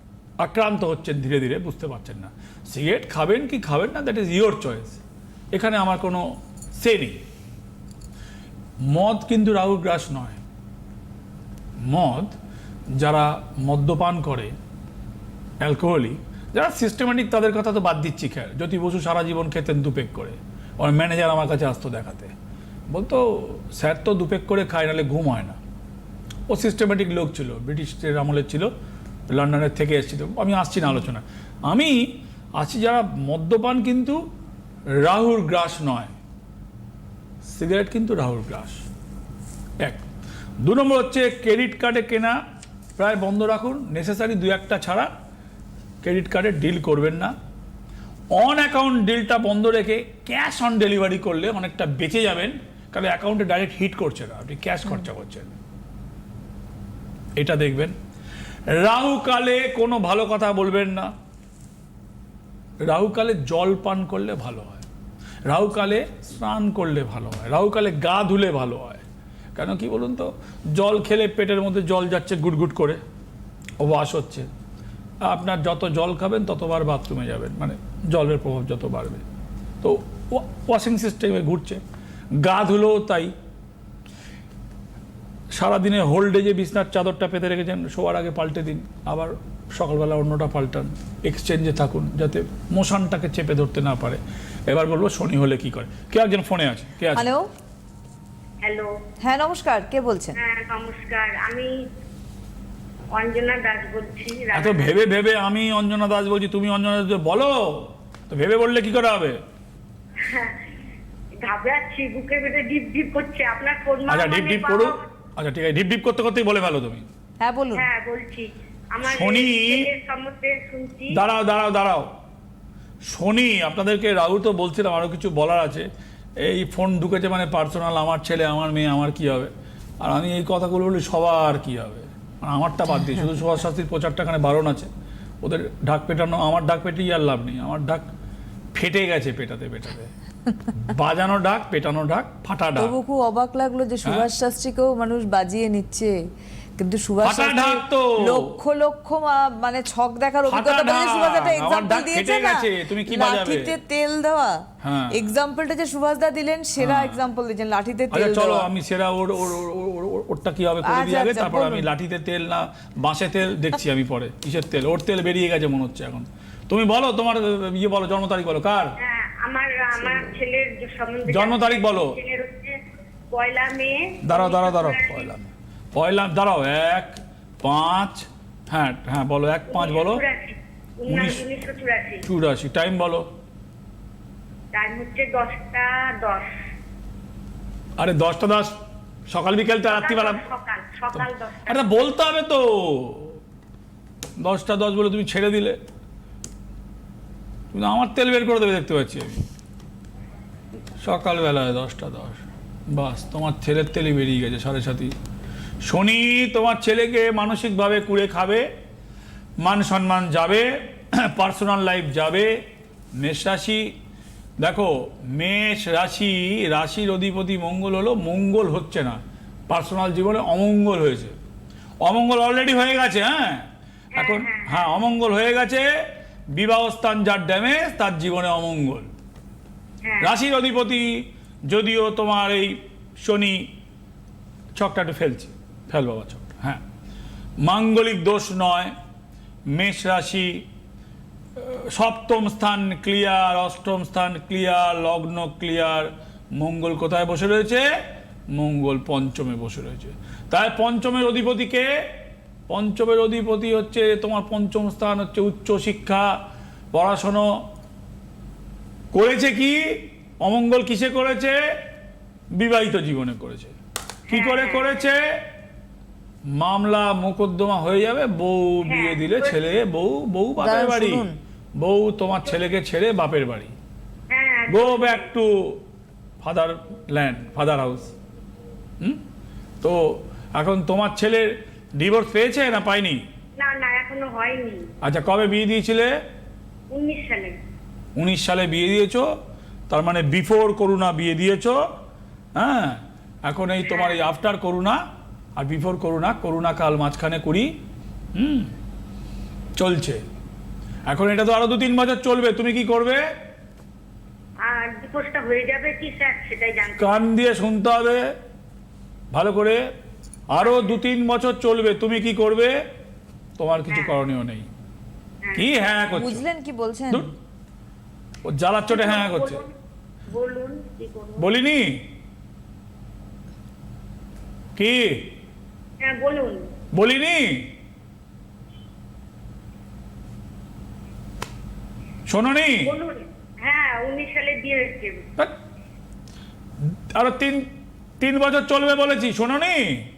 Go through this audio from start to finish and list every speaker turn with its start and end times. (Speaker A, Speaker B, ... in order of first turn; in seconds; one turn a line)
Speaker A: 0.4-5.0
Speaker A: 5.5-7.2
Speaker A: 8.9-10.4
Speaker A: 11.9-12.4
Speaker A: 13.0-14.6
Speaker A: 15.6-22.3
Speaker A: 22.9-25.6
Speaker A: 26.5-28.7
Speaker A: 29.3-34.2
Speaker A: 35.0-36.1
Speaker A: 37.5-38.8
Speaker A: 40.6-42.4
Speaker A: 43.0-45.1
Speaker A: 46.0-47.4
Speaker A: 48.3-55.5
Speaker A: 57.4-58.0
Speaker A: 58.7-61.1
Speaker A: 62.8-64.8
Speaker A: 65.5-69.0
Speaker A: 69.5-73.0
Speaker A: 73.8-74.5
Speaker A: 75.2-79.2
Speaker A: 79.8-81.8
Speaker A: 82.3-83.3
Speaker A: 85.5-97.3
Speaker B: 97.2-97.5
Speaker C: 98.6-98.9
Speaker B: 99.2-100.4
Speaker C: 100.4-101.8
Speaker C: 103.1-104.9
Speaker A: 104.5-109.4
Speaker C: 110.2-110.6
Speaker C: 111.4-115.0
Speaker A: 114.1-117.1
Speaker B: 117.4-117.9
Speaker C: 117.8-121.2
Speaker A: 119.0-119.9
Speaker A: 121.1-122.1
Speaker A: 123.0-134.9
Speaker A: 135.4-138.1
Speaker A: 138.7-140.1
Speaker A: 140.7-142.9
Speaker B: 142.8-146.2
Speaker B: 146.8-158.7
Speaker A: 147.2-148.5
Speaker A: 150.5-153.8
Speaker A: 154.8-155.3
Speaker A: 156.8-157.2
Speaker A: 158.1-168.9
Speaker B: 160.8-161.9
Speaker C: 169.0-172.8
Speaker A: 171.3-172.2
Speaker C: 173.3-175.3
Speaker A: 174.2-180.2
Speaker C: 179.7-182.2
Speaker A: 181.1-181.4
Speaker A: 182.2-183.3
Speaker C: 184.7-186.5
Speaker A: 188.0-188.8
Speaker A: 189.3-190.4
Speaker C: 189.8-192.0
Speaker A: 191.1-193.4
Speaker A: 194.4-195.8
Speaker A: 197.7-199.5
Speaker A: 201.0-202.4
Speaker A: 202.9-205.1
Speaker A: 205.8-208.7
Speaker A: 209.6-212.6
Speaker A: 213.2-213.9
Speaker A: 214.6-221.3
Speaker A: 222.0-225.9
Speaker C: 224.2-224.9
Speaker A: 226.5-229.1
Speaker C: 230.0-230.3
Speaker A: 230.2-233.7
Speaker A: 234.8-236.8
Speaker A: 237.6-238.9
Speaker A: 239.7-240.7
Speaker A: 241.6-247.9
Speaker A: 248.5-251.9
Speaker A: 252.7-256.4
Speaker A: 256.9-257.6
Speaker A: 259.1-261.8
Speaker A: 262.5-263.8
Speaker A: 264.3-265.2
Speaker C: 264.3-264.9
Speaker A: 266.5-271.3
Speaker C: 268.9-269.6
Speaker B: 270.6-271.4
Speaker A: 271.8-273.7
Speaker C: 274.3-275.3
Speaker A: 274.7-275.8
Speaker A: 276.4-278.1
Speaker A: 279.8-283.2
Speaker C: 283.6-284.9
Speaker A: 285.0-286.1
Speaker C: 286.9-287.6
Speaker A: 288.2-289.3
Speaker A: 289.9-291.9
Speaker A: 292.6-295.0
Speaker C: 293.8-294.2
Speaker A: 295.6-297.7
Speaker A: 298.3-298.7
Speaker A: 299.8-300.2
Speaker A: 301.1-303.2
Speaker C: 304.6-307.3
Speaker A: 307.0-308.3
Speaker A: 309.3-309.9
Speaker A: 310.5-312.8
Speaker C: 310.6-311.0
Speaker A: 313.6-314.7
Speaker C: 315.4-315.7
Speaker A: 315.6-316.4
Speaker B: 316.2-317.3
Speaker A: 318.4-319.6
Speaker C: 318.9-319.7
Speaker C: 320.3-321.5
Speaker A: 321.4-322.1
Speaker A: 324.8-325.3
Speaker C: 326.0-326.7
Speaker A: 326.9-327.7
Speaker A: 332.3-332.9
Speaker C: 332.8-335.3
Speaker A: 336.8-337.7
Speaker A: 338.2-340.1